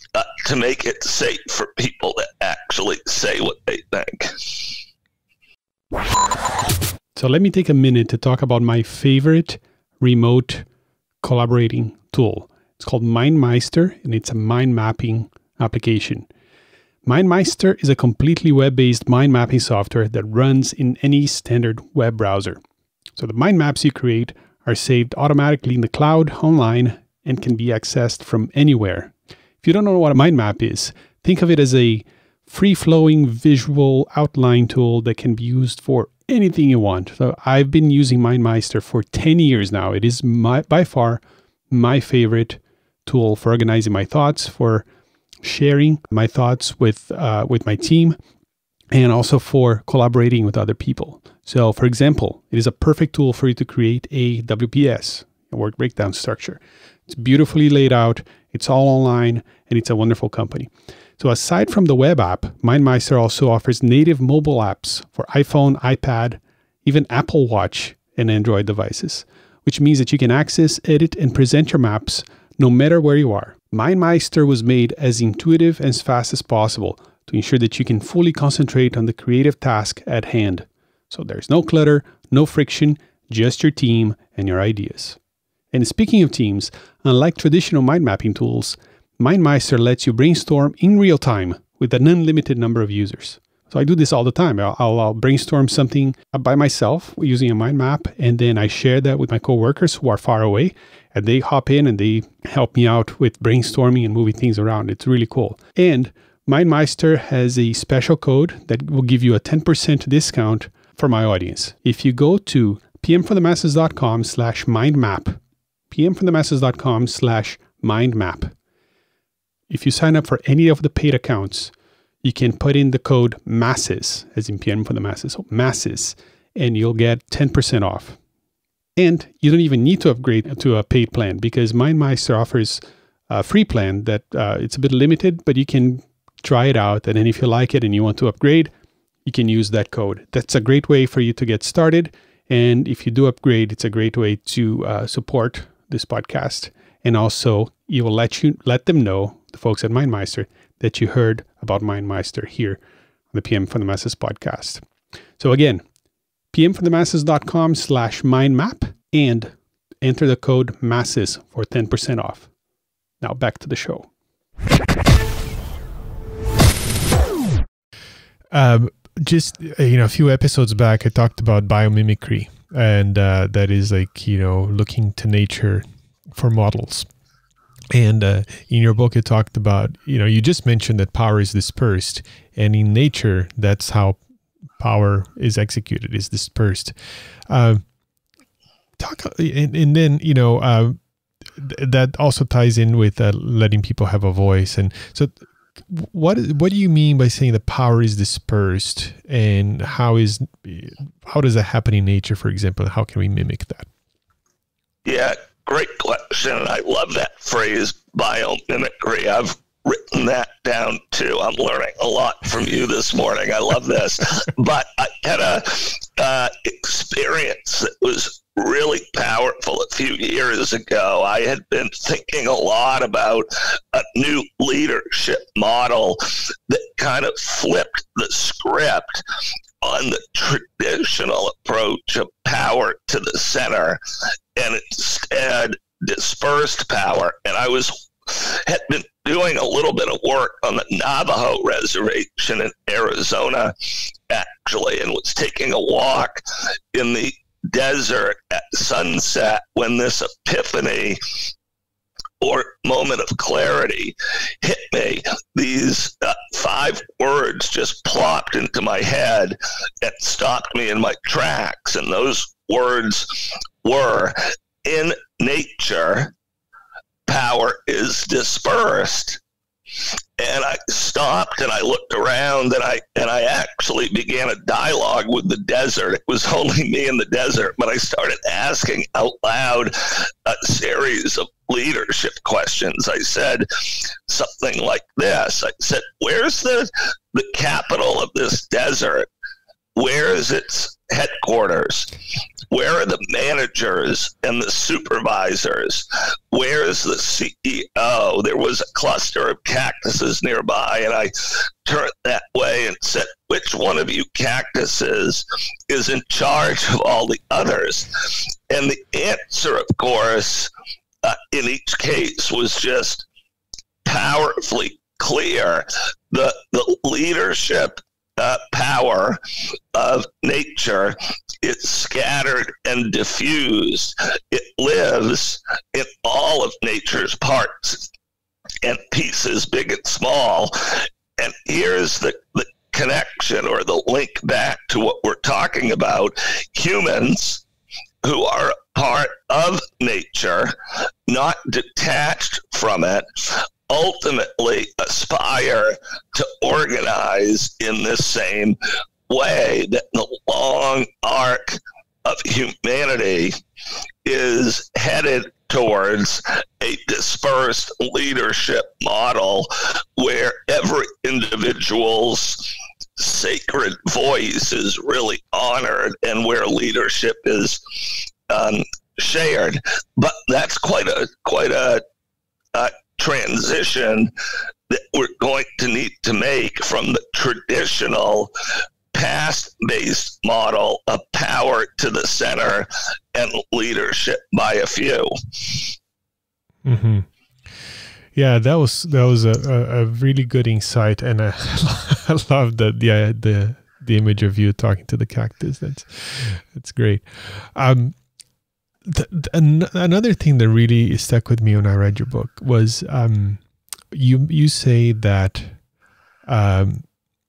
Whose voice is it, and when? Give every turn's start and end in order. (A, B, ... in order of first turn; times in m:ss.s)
0:00.1-0:04.6 A
0:07.2-0:10.6 B
0:07.2-0:09.4 C
0:10.0-0:10.5 C
0:11.2-0:16.2 B
0:11.2-0:16.2 C
0:17.1-0:22.5 C
0:17.3-0:22.5 B
0:23.2-0:29.0 C
0:23.2-0:24.3 B
0:24.9-0:29.0 B
0:29.6-0:41.1 C
0:29.7-0:31.9 B
0:32.5-0:41.2 B
0:41.7-0:42.5 C
0:42.0-0:42.5 B
0:43.1-0:44.8 C
0:43.3-0:44.8 B
0:45.5-0:48.1 C
0:45.5-0:48.0 B
0:49.0-0:56.6 C
0:49.3-0:56.6 B
0:57.1-1:00.6 C
0:57.2-1:00.6 B
1:01.2-1:06.3 C
1:01.2-1:06.3 B
1:06.9-1:20.6 C
1:06.9-1:12.1 B
1:12.7-1:20.6 B
1:21.1-1:25.1 C
1:21.2-1:22.9 B
1:23.6-1:25.1 B
1:25.7-1:28.7 C
1:26.0-1:26.5 B
1:27.4-1:28.4 B
1:29.2-1:55.3 C
1:29.5-1:45.8 B
1:46.8-1:50.1 B
1:51.5-1:53.0 B
1:55.9-1:58.5 C
1:57.6-1:57.8 B
1:59.7-2:01.7 C
2:00.4-2:01.0 B
2:02.2-2:08.1 C
2:06.8-2:07.2 B
2:09.0-2:12.8 C
2:09.2-2:12.6 B
2:13.3-2:18.7 C
2:13.6-2:15.8 B
2:16.8-2:18.6 B
2:19.3-2:32.8 C
2:19.5-2:22.0 B
2:22.9-2:24.5 B
2:25.7-2:26.6 B
2:33.3-2:34.8 C
2:35.4-2:35.8 C
2:36.5-2:39.5 C
2:40.0-2:42.5 C
2:43.2-2:44.0 C
2:48.5-2:57.1 B
2:57.9-3:04.2 B
3:04.8-3:06.9 B
3:07.5-3:07.8 B
3:09.0-3:11.0 B
3:11.6-3:15.4 B
3:15.9-3:23.9 B
3:25.0-3:49.2 A
3:49.8-3:54.0 A
3:54.6-4:03.7 A
4:04.3-4:11.2 A
4:12.4-4:26.3 A
4:27.3-4:29.4 A
4:30.4-4:49.3 A
4:50.0-4:52.1 A
4:52.7-5:10.7 A
5:11.2-5:13.2 A
5:14.0-5:19.4 A
5:19.9-5:28.1 A
5:28.8-5:37.6 A
5:38.2-5:40.7 A
5:41.3-5:48.8 A
5:49.3-5:53.6 A
5:54.2-6:07.8 A
6:08.5-6:12.0 A
6:12.7-6:14.3 A
6:14.9-6:18.5 A
6:19.1-6:25.8 A
6:26.8-6:27.3 B
6:28.3-6:38.2 B
6:39.1-6:45.8 B
6:46.5-6:47.1 B